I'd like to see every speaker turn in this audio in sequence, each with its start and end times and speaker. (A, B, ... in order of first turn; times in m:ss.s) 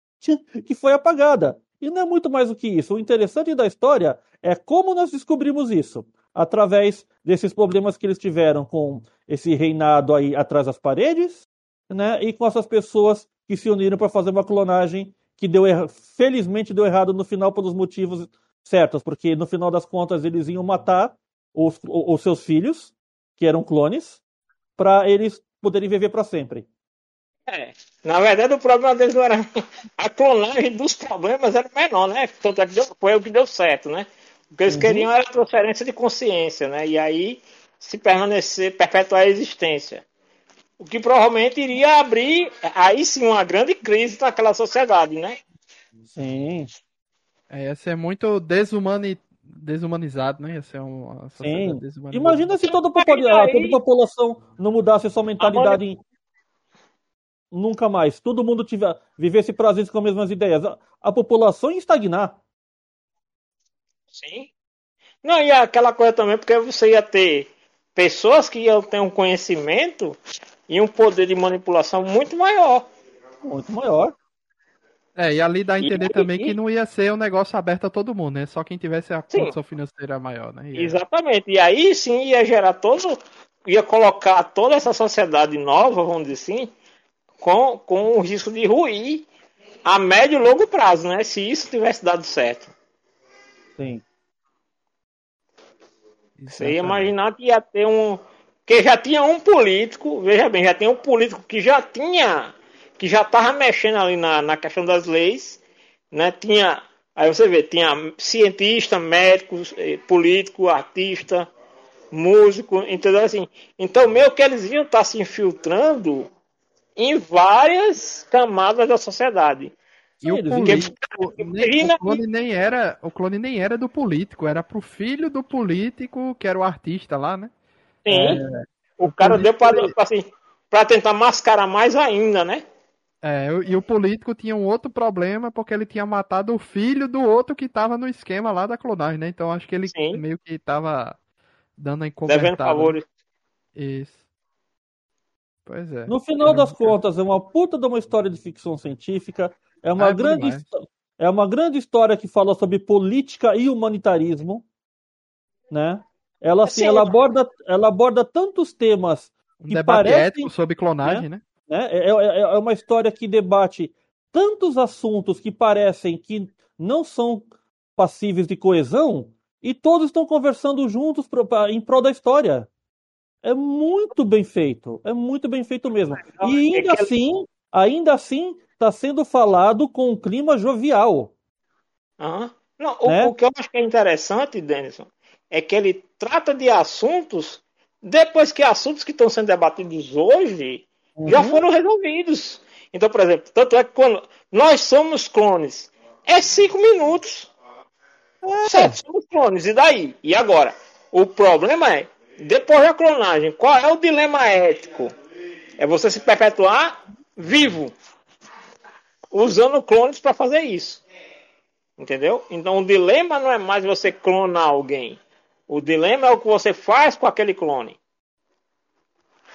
0:00.2-0:24.2 A
0:24.8-0:26.7 A
0:27.5-0:29.4 B
0:30.0-0:40.0 B
0:34.7-0:35.1 A
0:40.8-0:45.4 B
0:46.1-0:46.7 A
0:47.5-0:52.6 C
0:51.4-0:56.0 A
0:52.7-0:53.8 B
0:55.4-0:55.8 B
0:57.5-1:02.4 A
1:04.1-1:04.5 B
1:05.2-1:10.2 B
1:10.7-1:12.9 B
1:13.4-1:14.1 A
1:15.2-1:21.0 C
1:15.8-1:16.6 B
1:20.8-1:26.7 B
1:27.4-1:29.3 B
1:29.8-1:32.7 B
1:33.8-1:34.0 A
1:36.4-1:37.1 C
1:36.5-1:45.6 B
1:46.1-1:51.5 B
1:52.1-1:56.3 B
1:57.0-1:59.8 B
2:00.2-2:00.9 A
2:00.2-2:07.5 C
2:00.6-2:02.2 B
2:08.0-2:08.4 B
2:08.1-2:08.5 A
2:09.0-2:12.6 B
2:09.0-2:09.9 C
2:13.2-2:21.2 C
2:19.9-2:20.2 B
2:21.8-2:23.0 C
2:22.3-2:23.0 B
2:23.8-2:24.2 C
2:25.7-2:27.0 C
2:26.1-2:34.6 A
2:30.0-2:30.6 C
2:35.7-2:47.5 A
2:36.7-2:37.2 B
2:39.6-2:41.4 C
2:48.0-2:52.7 A
2:53.4-3:01.3 A
2:56.3-2:57.1 B
3:02.2-3:17.5 B
3:03.0-3:03.3 A
3:11.2-3:11.6 A
3:18.4-3:19.0 A
3:18.6-3:25.1 B
3:25.8-3:27.9 B
3:29.3-3:31.0 B
3:32.0-3:38.0 B